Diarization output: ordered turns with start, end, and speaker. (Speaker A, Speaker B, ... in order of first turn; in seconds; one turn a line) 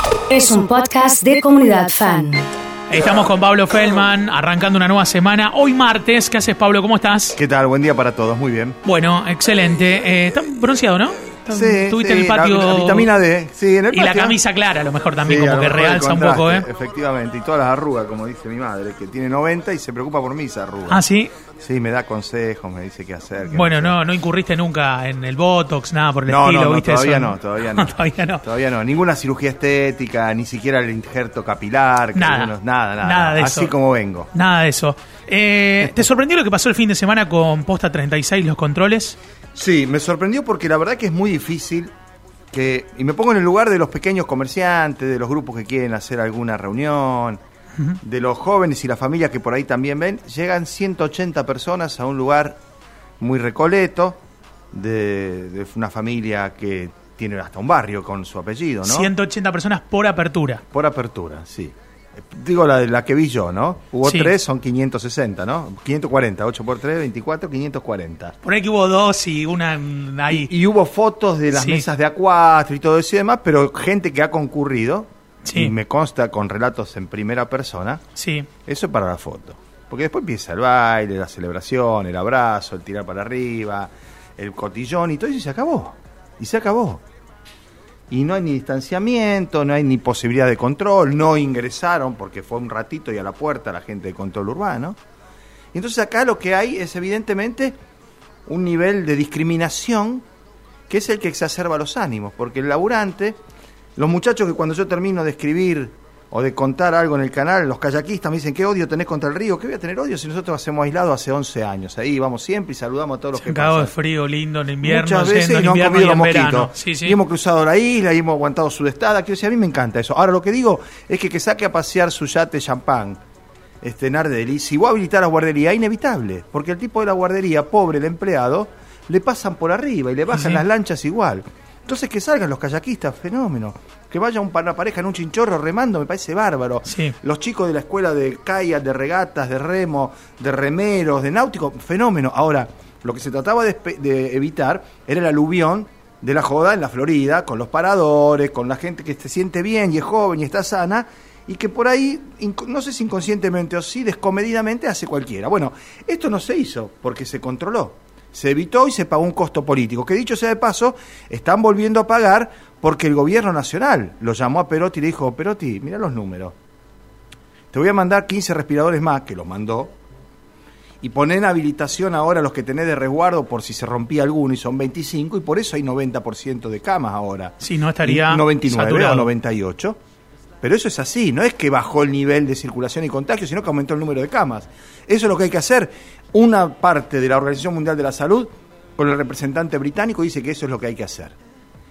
Speaker A: 0.3-2.4
Speaker B: 2.9-7.4
Speaker C: 7.3-8.8
Speaker B: 8.8-13.1
Speaker C: 11.5-14.4
Speaker B: 13.9-16.6
Speaker C: 15.2-21.1
Speaker B: 20.9-21.3
Speaker C: 21.6-24.0
Speaker B: 23.5-28.4
Speaker C: 26.2-34.3
Speaker B: 32.1-33.7
Speaker B: 34.3-39.2
Speaker C: 39.5-41.9
Speaker C: 42.5-47.4
Speaker C: 48.0-52.6
Speaker C: 53.2-54.2
Speaker C: 54.7-59.1
Speaker B: 58.8-60.6
Speaker C: 60.7-68.3
Speaker B: 64.0-64.3
Speaker B: 68.4-70.5
Speaker C: 70.3-78.0
Speaker B: 71.5-71.9
Speaker B: 75.4-75.7
Speaker B: 78.2-78.5
Speaker C: 78.7-87.0
Speaker C: 88.1-95.0
Speaker C: 95.7-97.8
Speaker C: 98.5-100.2
Speaker C: 100.9-103.4
Speaker C: 104.0-113.9
Speaker B: 113.4-117.2
Speaker C: 114.8-123.2
Speaker C: 123.8-166.5
Speaker B: 130.3-130.6
Speaker B: 136.9-137.1
Speaker C: 167.7-169.9
Speaker C: 171.0-180.0
Speaker B: 177.6-179.3
Speaker C: 180.6-191.3